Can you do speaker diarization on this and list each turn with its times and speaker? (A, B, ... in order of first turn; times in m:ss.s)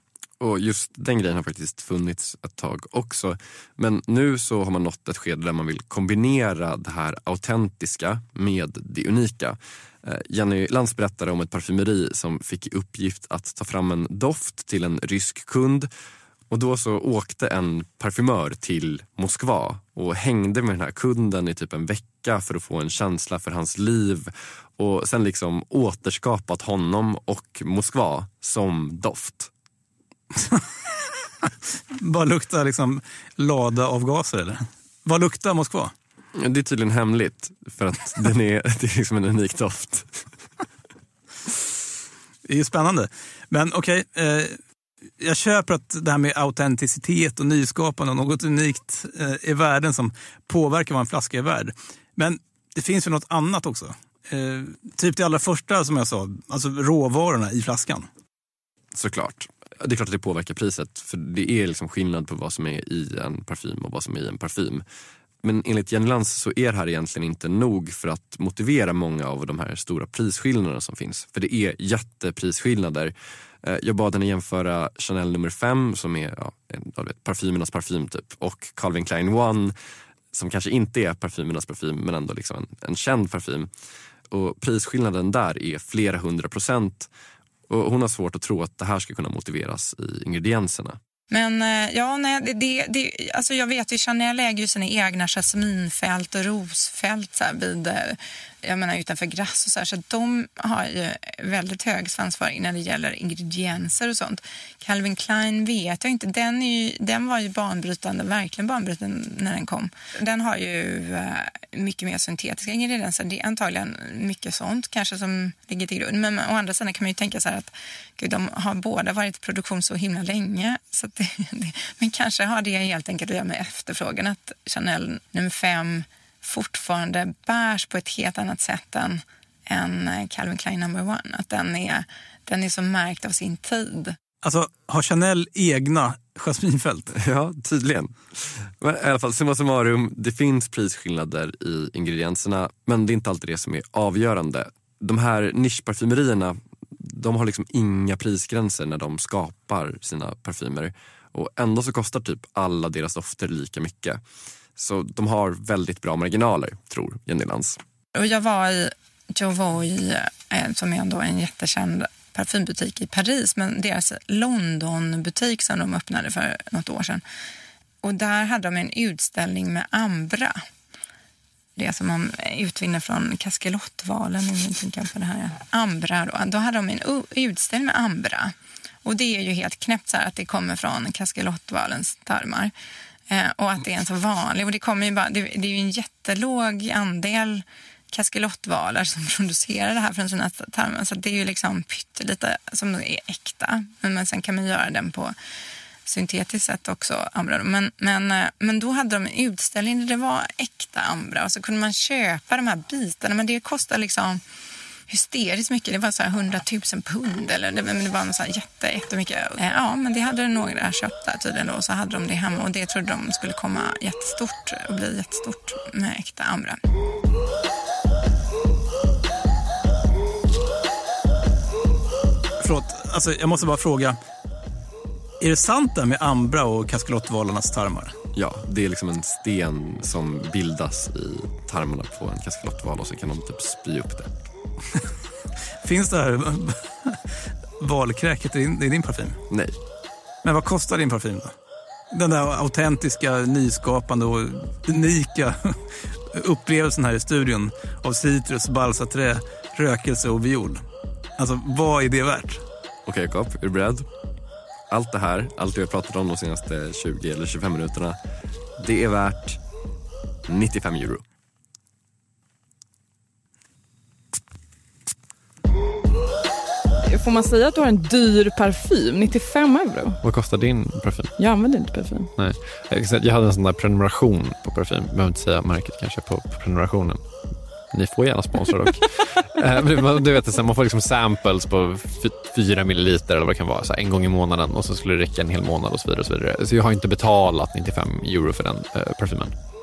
0:00.4-0:15.9 A
0:16.5-0:29.5 A
0:30.4-0:35.9 B
0:36.3-0:40.3 A
0:42.5-0:44.6 B
0:45.2-0:58.1 B
0:58.9-1:04.8 A
1:05.4-1:19.7 A
1:20.3-1:23.7 A
1:24.3-1:27.1 A
1:27.7-1:31.0 A
1:31.3-2:14.2 C
2:14.4-2:17.1 B
2:17.1-2:34.2 A
2:34.8-2:37.8 A
2:38.1-2:47.2 C
2:48.0-2:50.6 C
2:51.8-2:58.5 C
2:59.0-3:02.7 C
3:03.3-3:15.3 C
3:16.0-3:24.4 C
3:25.1-3:36.8 C
3:42.6-3:44.2 B
3:45.4-3:48.1 B
3:48.3-3:54.3 A
3:55.8-3:57.2 B
3:57.8-3:59.4 B
3:59.5-3:59.8 A
4:00.4-4:01.5 B
4:02.1-4:10.8 B
4:11.4-4:12.6 B
4:13.0-4:14.1 A
4:14.9-4:18.2 A
4:18.8-4:19.6 A
4:20.5-4:21.2 A
4:27.1-4:30.2 D
4:30.2-4:31.3 E
4:31.4-4:32.3 D
4:32.4-4:37.2 E
4:37.9-4:49.5 E